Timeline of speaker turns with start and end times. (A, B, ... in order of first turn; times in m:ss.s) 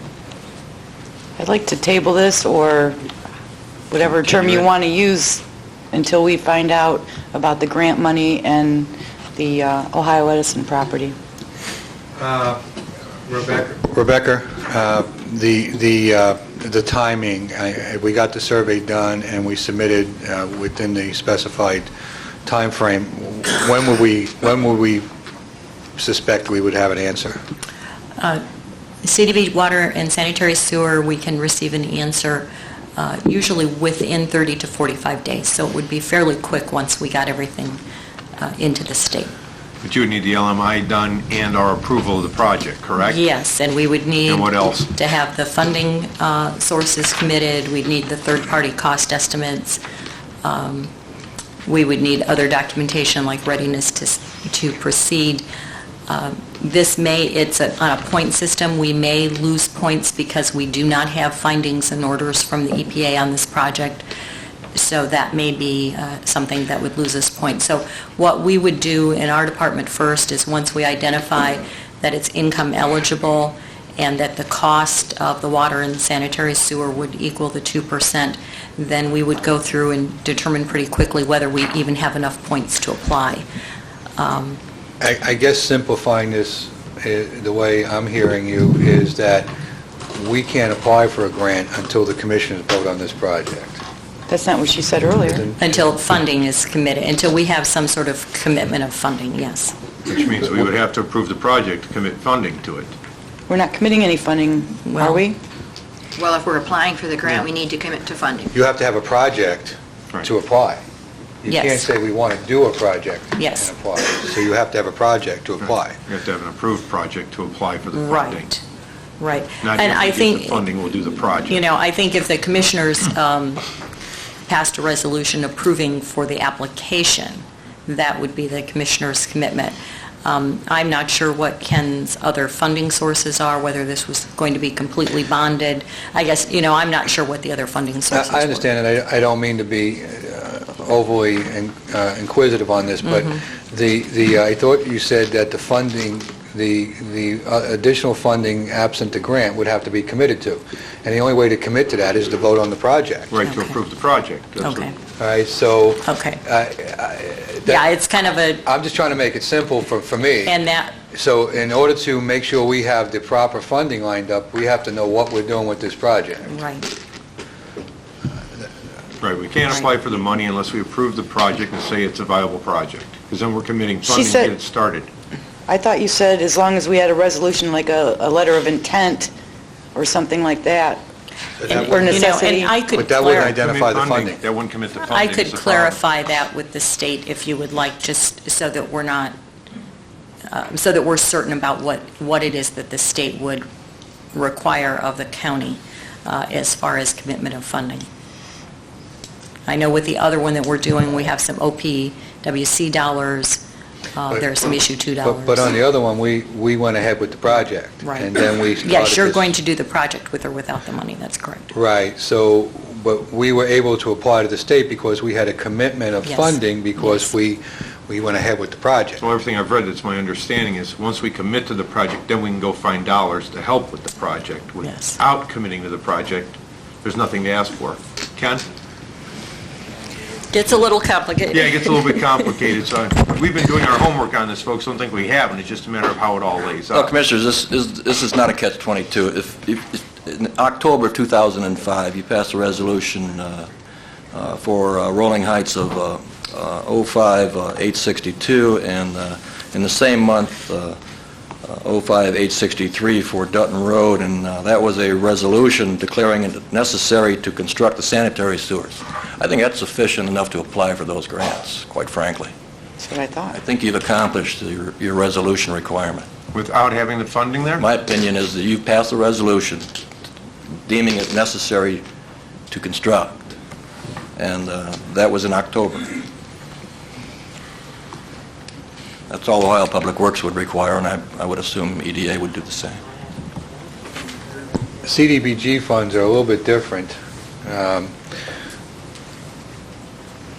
0:01.4-0:03.0 A
0:03.9-0:11.2 A
0:04.2-0:04.6 B
0:12.2-0:12.6 C
0:13.2-0:21.9 C
0:22.4-0:25.0 C
0:26.0-0:27.4 C
0:28.2-0:28.4 D
0:29.0-0:37.8 D
0:38.4-0:39.3 D
0:39.8-0:43.2 B
0:43.0-0:49.8 D
0:44.2-0:44.9 B
0:50.4-0:50.9 D
0:51.6-0:55.4 D
0:56.1-1:04.0 D
1:04.7-1:23.4 D
1:24.2-1:24.6 D
1:25.0-1:29.5 C
1:30.1-1:33.8 C
1:34.3-1:35.5 A
1:35.2-1:35.9 C
1:35.6-1:39.7 D
1:40.0-1:42.9 B
1:43.5-1:45.4 A
1:44.8-1:45.2 D
1:46.2-1:48.5 E
1:48.5-1:50.8 C
1:51.4-1:56.0 C
1:51.5-1:51.9 D
1:53.4-1:53.7 D
1:55.6-1:58.5 B
1:57.9-1:58.6 D
1:59.2-2:00.7 D
1:59.6-2:01.6 B
2:01.5-2:03.6 D
2:04.4-2:18.7 D
2:18.1-2:33.4 C
2:23.0-2:23.4 D
2:33.3-2:34.8 B
2:33.4-2:33.7 D
2:34.6-2:34.9 D
2:35.2-2:37.9 C
2:36.0-2:36.4 D
2:37.6-2:38.6 D
2:38.6-2:40.6 C
2:40.4-2:40.9 D
2:41.1-2:46.6 C
2:46.4-2:46.9 D
2:49.2-2:55.1 B
2:54.0-2:54.5 A
2:55.7-2:59.3 A
2:59.9-3:01.0 A
3:01.6-3:02.2 C
3:01.7-3:03.6 D
3:01.7-3:02.8 A
3:02.9-3:04.4 C
3:03.4-3:06.0 B
3:05.0-3:09.3 D
3:10.5-3:13.6 D
3:14.3-3:18.1 D
3:19.6-3:23.6 D
3:24.1-3:25.7 D
3:24.3-3:24.7 C
3:25.2-3:29.5 C
3:28.0-3:28.3 D
3:28.8-3:31.7 D
3:31.7-3:39.2 C
3:36.2-3:37.3 D
3:39.2-3:48.6 B
3:44.8-3:45.2 D
3:50.5-3:52.2 D
3:51.5-3:57.1 B
3:56.9-4:03.7 F
4:04.3-4:11.0 F
4:11.6-4:22.5 F
4:23.0-4:23.6 A
4:23.5-4:26.3 F
4:26.5-4:27.9 B
4:27.8-4:29.9 F
4:30.8-4:32.0 F
4:32.7-4:33.5 F
4:34.4-4:36.2 F
4:39.3-4:43.0 F
4:45.0-4:48.1 C